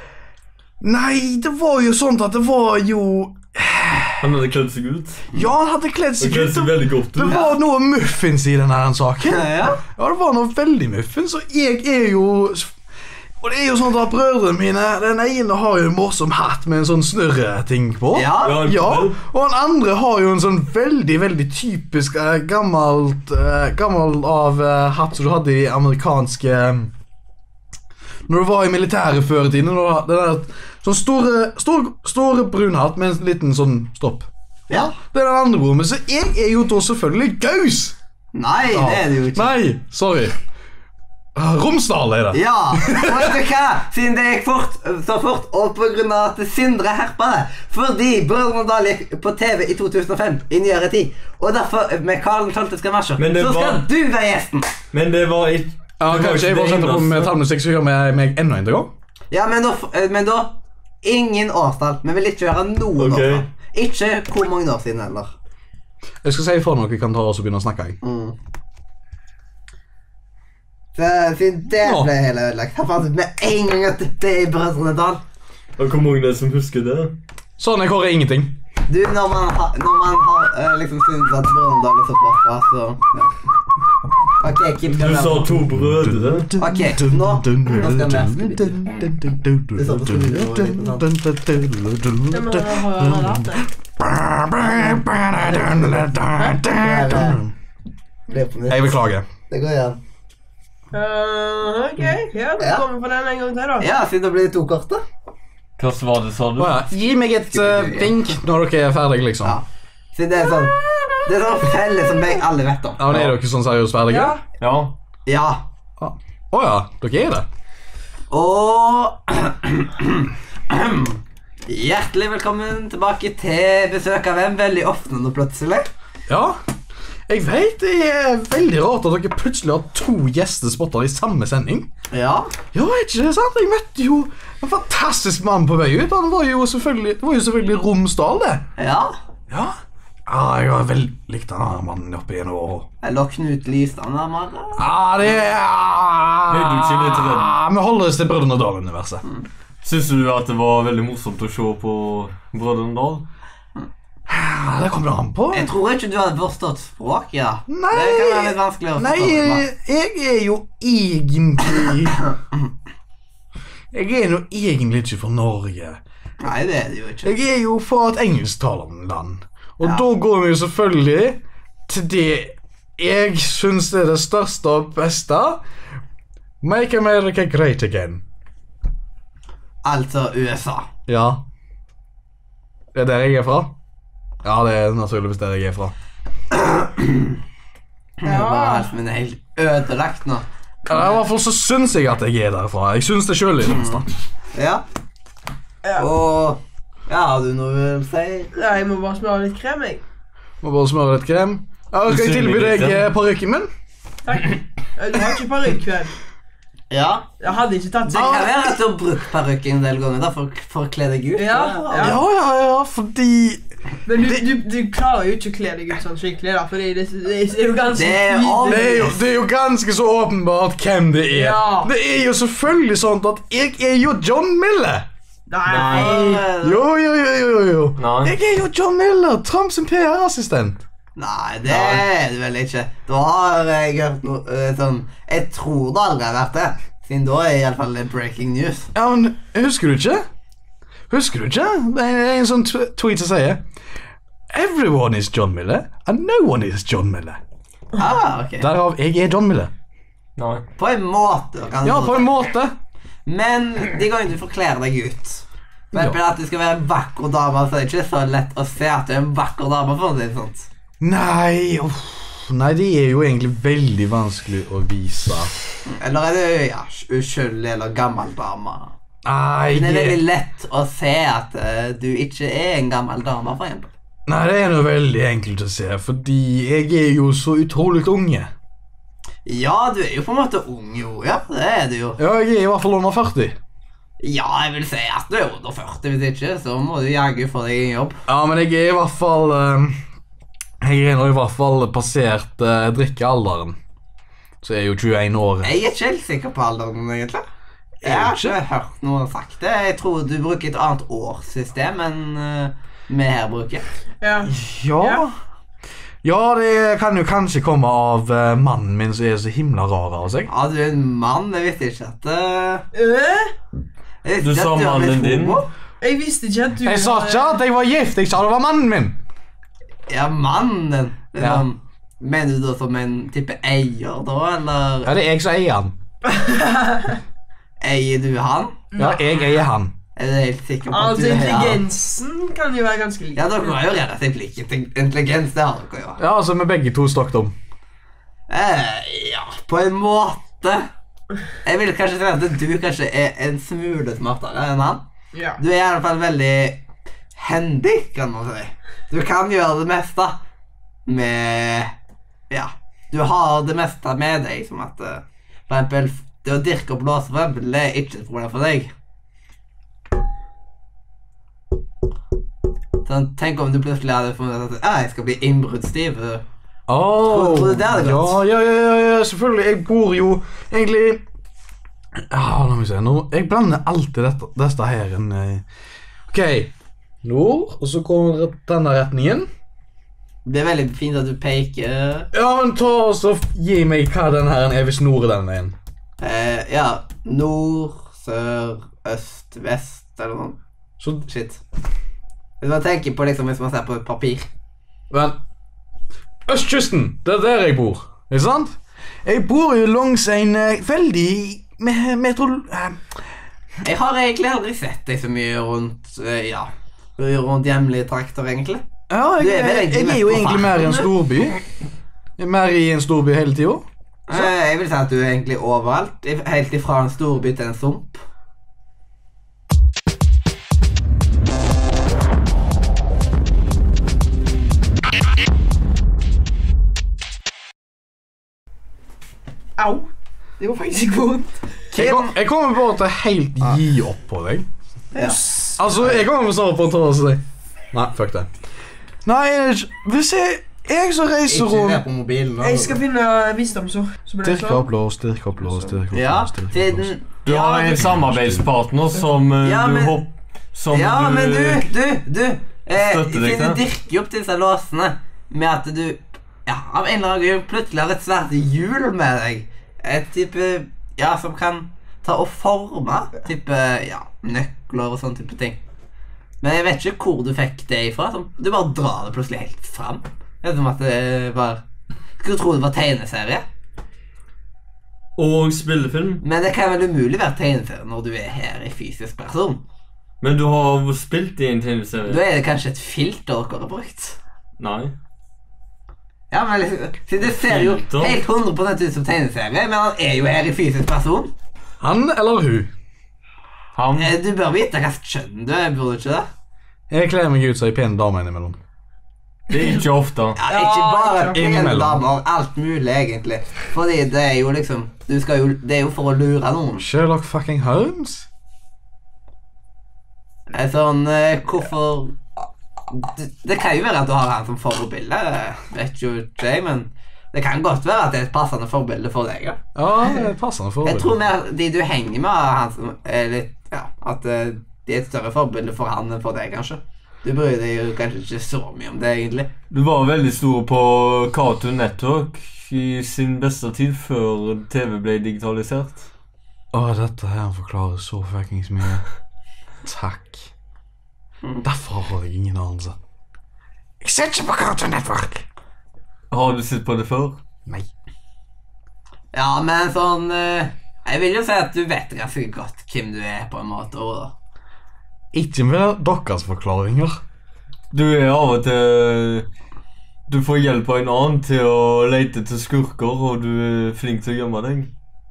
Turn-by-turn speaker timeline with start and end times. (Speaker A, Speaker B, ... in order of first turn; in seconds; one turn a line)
Speaker A: 0.8-4.2
Speaker B: 4.2-5.2
Speaker A: 5.3-12.7
Speaker B: 6.2-7.4
Speaker C: 7.3-7.5
Speaker C: 9.3-9.8
Speaker A: 13.4-26.9
Speaker C: 18.1-18.6
Speaker B: 18.4-19.2
Speaker A: 28.3-38.0
Speaker C: 34.7-34.9
Speaker C: 38.3-39.5
Speaker A: 38.7-40.3
Speaker A: 41.4-43.4
Speaker C: 42.3-54.7
Speaker B: 53.2-53.9
Speaker B: 54.9-57.3
Speaker A: 56.0-58.9
Speaker C: 59.3-65.3
Speaker B: 63.0-63.4
Speaker A: 66.2-68.0
Speaker C: 68.0-68.3
Speaker C: 70.9-75.2
Speaker A: 71.8-72.1
Speaker B: 75.8-77.1
Speaker A: 77.6-78.6
Speaker C: 78.9-83.3
Speaker C: 84.4-85.6
Speaker B: 84.8-86.5
Speaker A: 85.7-97.5
Speaker C: 86.6-89.1
Speaker C: 89.7-91.1
Speaker D: 92.3-93.7
Speaker C: 94.6-96.0
Speaker C: 96.8-97.4
Speaker C: 98.3-99.0
Speaker A: 98.7-99.3
Speaker C: 99.5-100.0
Speaker D: 100.9-103.9
Speaker C: 102.6-102.8
Speaker C: 103.8-105.0
Speaker B: 105.8-106.8
Speaker A: 106.6-109.6
Speaker C: 107.5-108.4
Speaker C: 109.4-113.1
Speaker A: 113.0-114.4
Speaker B: 113.1-113.3
Speaker D: 114.1-114.4
Speaker B: 114.6-114.9
Speaker C: 115.2-115.6
Speaker A: 116.0-117.5
Speaker C: 118.3-125.9
Speaker A: 126.3-126.6
Speaker A: 127.3-131.9
Speaker C: 132.1-132.5
Speaker A: 132.7-138.7
Speaker C: 138.8-139.1
Speaker A: 139.5-142.9
Speaker C: 143.0-145.3
Speaker A: 144.7-149.2
Speaker B: 146.5-147.5
Speaker B: 149.8-153.2
Speaker A: 154.3-155.7
Speaker C: 155.5-159.6
Speaker A: 157.7-162.2
Speaker A: 163.9-166.0
Speaker C: 166.4-167.3
Speaker A: 167.2-175.6
Speaker A: 176.6-178.2
Speaker C: 179.8-180.9
Speaker A: 181.1-181.4
Speaker A: 182.9-183.7
Speaker A: 184.4-185.9
Speaker C: 186.5-187.4
Speaker C: 188.2-191.1
Speaker D: 188.2-188.9
Speaker A: 190.9-194.1
Speaker C: 193.7-194.8
Speaker D: 195.8-196.1
Speaker C: 195.9-198.5
Speaker D: 198.5-200.0
Speaker A: 200.6-203.7
Speaker B: 202.1-203.0
Speaker D: 204.2-206.1
Speaker C: 206.9-207.3
Speaker D: 207.4-208.6
Speaker C: 208.1-212.2
Speaker A: 208.2-208.5
Speaker D: 211.3-212.2
Speaker A: 212.0-213.6
Speaker D: 214.1-219.1
Speaker A: 214.2-214.4
Speaker C: 217.9-219.2
Speaker A: 218.6-225.1
Speaker D: 221.3-221.9
Speaker D: 225.5-226.4
Speaker B: 225.7-226.3
Speaker C: 225.7-226.8
Speaker A: 226.6-230.8
Speaker B: 228.0-228.3
Speaker C: 231.2-238.9
Speaker A: 231.6-232.1
Speaker A: 238.9-240.2
Speaker A: 241.1-243.6
Speaker A: 244.5-247.4
Speaker C: 248.0-248.7
Speaker A: 248.6-249.7
Speaker B: 250.4-250.6
Speaker C: 250.8-252.3
Speaker A: 251.8-252.7
Speaker C: 253.2-260.7
Speaker A: 261.0-265.5
Speaker C: 265.9-268.9
Speaker A: 269.2-270.2
Speaker C: 269.7-273.9
Speaker A: 274.3-278.5
Speaker C: 279.4-282.2
Speaker A: 282.2-283.6
Speaker C: 284.2-288.2
Speaker A: 288.3-290.0
Speaker A: 290.8-293.8
Speaker A: 294.6-295.8
Speaker C: 295.6-297.4
Speaker C: 298.0-303.8
Speaker A: 298.0-298.6
Speaker D: 304.2-305.2
Speaker A: 304.4-305.3
Speaker A: 306.2-310.5
Speaker C: 310.5-312.9
Speaker D: 312.9-313.5
Speaker C: 314.2-315.7
Speaker B: 314.4-315.6
Speaker D: 316.0-317.6
Speaker A: 316.8-319.2
Speaker C: 320.1-325.1
Speaker A: 321.4-321.6
Speaker A: 325.0-325.9
Speaker D: 326.3-327.2
Speaker C: 327.8-328.8
Speaker D: 328.9-329.5
Speaker A: 329.0-329.9
Speaker C: 330.1-331.8
Speaker D: 330.9-333.8
Speaker C: 333.4-336.2
Speaker A: 336.2-337.5
Speaker C: 338.5-340.9
Speaker C: 341.6-345.0
Speaker D: 345.3-345.6
Speaker C: 345.6-346.8
Speaker C: 347.3-350.4
Speaker C: 351.1-351.9
Speaker C: 352.5-358.9
Speaker C: 363.0-366.4
Speaker A: 366.9-371.2
Speaker C: 367.2-368.4
Speaker A: 372.2-375.6
Speaker A: 376.3-376.7
Speaker A: 377.2-379.5
Speaker C: 380.4-382.3
Speaker A: 382.3-385.7
Speaker C: 386.2-390.6
Speaker A: 391.0-391.2
Speaker C: 391.3-391.6
Speaker C: 392.6-394.5
Speaker A: 395.1-395.4
Speaker A: 396.5-403.0
Speaker C: 403.8-408.8
Speaker A: 409.1-411.6
Speaker C: 409.4-411.1
Speaker A: 412.4-414.5
Speaker C: 414.3-418.2
Speaker D: 429.8-431.5
Speaker C: 431.9-432.3
Speaker A: 431.9-434.7
Speaker D: 435.1-435.8
Speaker C: 435.1-436.2
Speaker A: 435.8-438.5
Speaker A: 439.2-442.0
Speaker C: 441.5-443.0
Speaker D: 442.6-444.9
Speaker A: 444.4-447.1
Speaker D: 445.6-445.9
Speaker C: 446.1-448.1
Speaker B: 447.4-451.8
Speaker A: 447.9-448.7
Speaker C: 449.6-450.2
Speaker C: 450.9-465.8
Speaker B: 452.9-453.8
Speaker C: 466.6-471.8
Speaker C: 472.4-473.6
Speaker B: 475.4-476.4
Speaker C: 476.4-479.8
Speaker B: 480.4-482.4
Speaker C: 482.3-484.4
Speaker B: 484.8-485.1
Speaker C: 486.5-491.5
Speaker B: 487.4-488.4
Speaker A: 492.0-492.9
Speaker B: 493.9-494.3
Speaker C: 494.2-496.5
Speaker A: 497.1-498.8
Speaker B: 499.7-500.6
Speaker C: 500.6-507.1
Speaker D: 500.6-501.7
Speaker A: 501.5-502.2
Speaker A: 507.0-508.5
Speaker C: 510.7-512.4
Speaker C: 513.1-519.8
Speaker A: 519.9-521.4
Speaker C: 521.0-529.7
Speaker B: 529.9-536.2
Speaker A: 536.9-539.2
Speaker A: 540.0-540.7
Speaker A: 541.8-543.1
Speaker A: 544.2-545.6
Speaker B: 546.5-547.6
Speaker C: 549.5-554.5
Speaker A: 555.5-557.4
Speaker B: 558.1-559.7
Speaker B: 560.5-565.1